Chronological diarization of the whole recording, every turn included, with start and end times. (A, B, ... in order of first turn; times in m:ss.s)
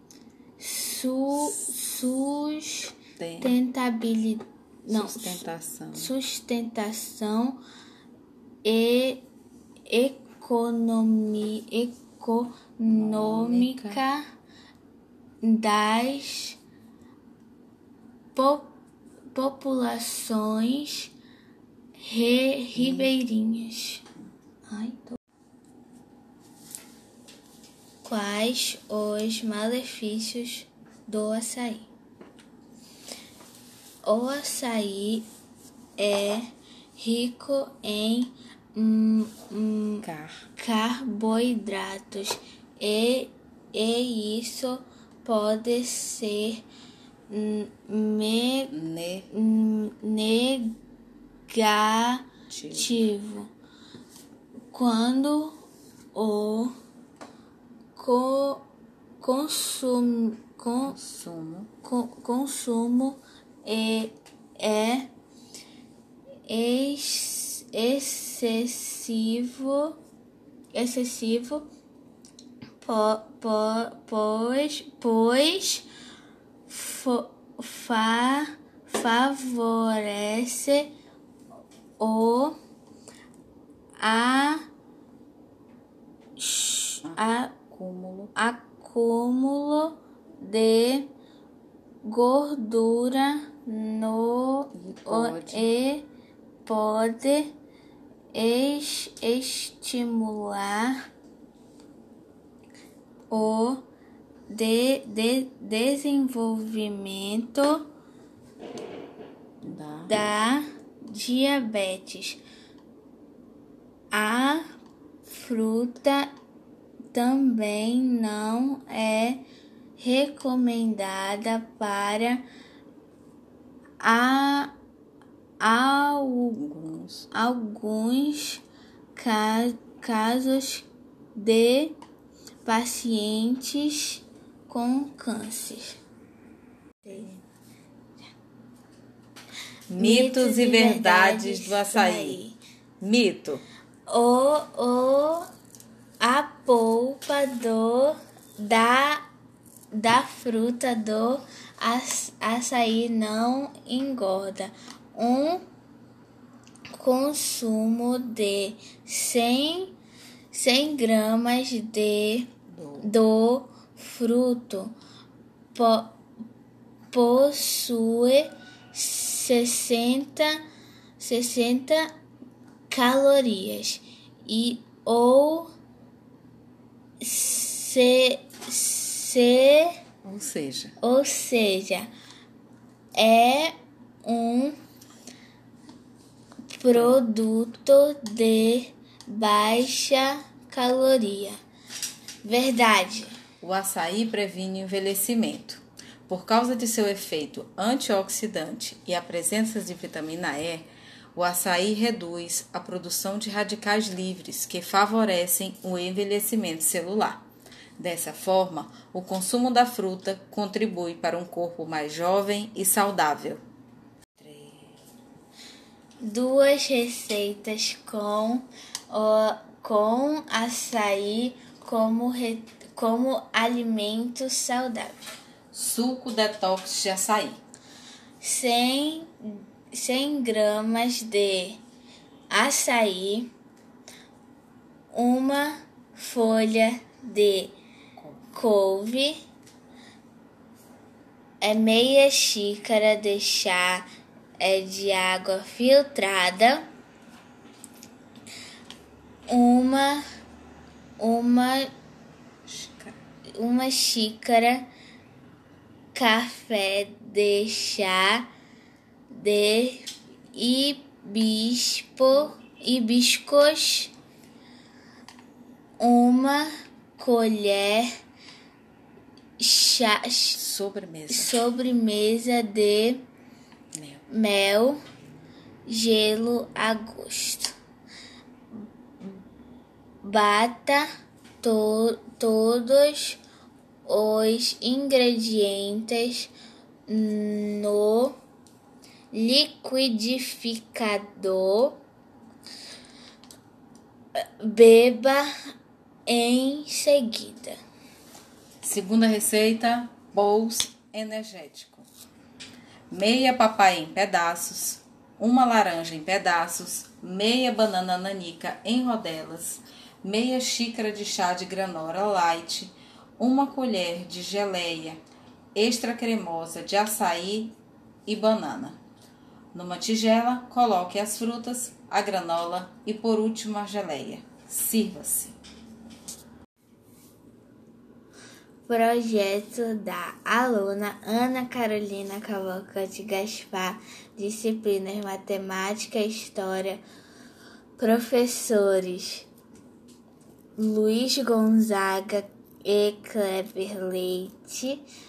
0:00.6-0:07.6 A
0:03.2-0:03.5 B
0:04.9-0:06.1 B
0:08.6-0:09.2 A
0:09.9-0:14.2 A
0:12.9-0:14.0 B
0:15.4-0:16.6 A
0:18.3-0:18.7 A
0:19.3-0:21.1 A
0:22.0-0:24.0 A
0:22.8-0:23.1 B
0:24.7-0:25.0 A
0:28.0-0:31.9 A
0:34.0-0:35.2 A
0:36.0-0:36.4 A
0:37.0-0:40.0 A
0:40.0-0:40.4 B
0:40.6-0:46.6 A
0:47.3-0:48.7 A
0:48.7-0:49.3 B
0:49.3-0:50.8 A
0:51.5-0:53.5 A
0:52.5-0:52.9 B
0:54.7-0:55.6 A
0:56.1-0:56.7 A
0:58.0-0:58.7 A
0:59.2-1:01.0 A
1:00.8-1:01.7 B
1:01.8-1:05.1 A
1:06.5-1:10.0 A
1:10.7-1:11.7 A
1:12.8-1:15.9 A
1:16.7-1:20.9 A
1:22.0-1:22.6 A
1:24.0-1:24.6 A
1:26.4-1:27.5 A
1:27.0-1:28.3 B
1:28.3-1:31.1 A
1:32.0-1:36.0 A
1:34.7-1:35.7 B
1:36.6-1:37.5 A
1:38.3-1:41.0 A
1:43.3-1:43.9 A
1:44.5-1:47.9 A
1:49.6-1:50.1 B
1:50.1-1:52.4 A
1:54.1-1:54.6 A
1:55.2-1:56.3 A
1:57.1-1:59.4 A
2:00.0-2:02.4 A
2:04.0-2:04.7 A
2:05.6-2:06.6 A
2:06.5-2:07.3 B
2:07.3-2:08.6 A
2:09.2-2:12.0 A
2:12.6-2:16.0 A
2:17.1-2:17.4 B
2:19.9-2:22.4 B
2:20.0-2:22.6 A
2:23.0-2:23.6 B
2:24.1-2:25.5 A
2:26.2-2:29.2 A
2:29.9-2:35.6 A
2:36.9-2:39.9 A
2:40.5-2:45.0 A
2:42.7-2:43.1 B
2:45.7-2:46.2 A
2:47.1-2:50.6 A
2:51.2-2:52.1 A
2:52.9-2:55.7 A
2:57.2-2:59.9 A
3:00.2-3:01.0 B
3:01.0-3:02.1 A
3:03.1-3:03.7 A
3:04.2-3:04.7 A
3:06.7-3:11.6 A
3:12.4-3:13.4 A
3:13.6-3:27.4 B
3:28.0-3:33.6 B
3:34.4-3:34.9 B
3:36.2-3:45.2 A
3:45.7-3:47.6 B
3:48.4-3:51.8 A
3:52.5-3:53.5 A
3:55.1-3:57.8 A
3:58.2-3:58.4 B
3:58.5-3:59.4 A
4:01.6-4:04.1 A
4:04.6-4:06.8 A
4:09.5-4:10.2 A
4:11.2-4:11.9 A
4:12.6-4:13.2 B
4:13.6-4:14.9 A
4:16.1-4:18.5 A
4:19.3-4:24.1 A
4:26.0-4:28.1 A
4:29.6-4:30.6 A
4:30.6-4:31.6 B
4:31.3-4:33.2 A
4:33.9-4:34.2 B
4:34.3-4:35.0 A
4:35.9-4:37.7 A
4:40.2-4:41.0 A
4:41.6-4:43.4 A
4:44.0-4:46.5 A
4:47.1-4:48.4 A
4:49.3-4:52.0 A
4:54.6-4:55.5 A
4:56.3-4:57.8 A
4:58.8-5:02.1 B
5:03.1-5:15.2 B
5:15.7-5:17.7 B
5:18.2-5:19.0 B
5:19.7-5:25.6 B
5:28.9-5:37.0 A
5:38.0-5:39.5 A
5:40.8-5:45.0 A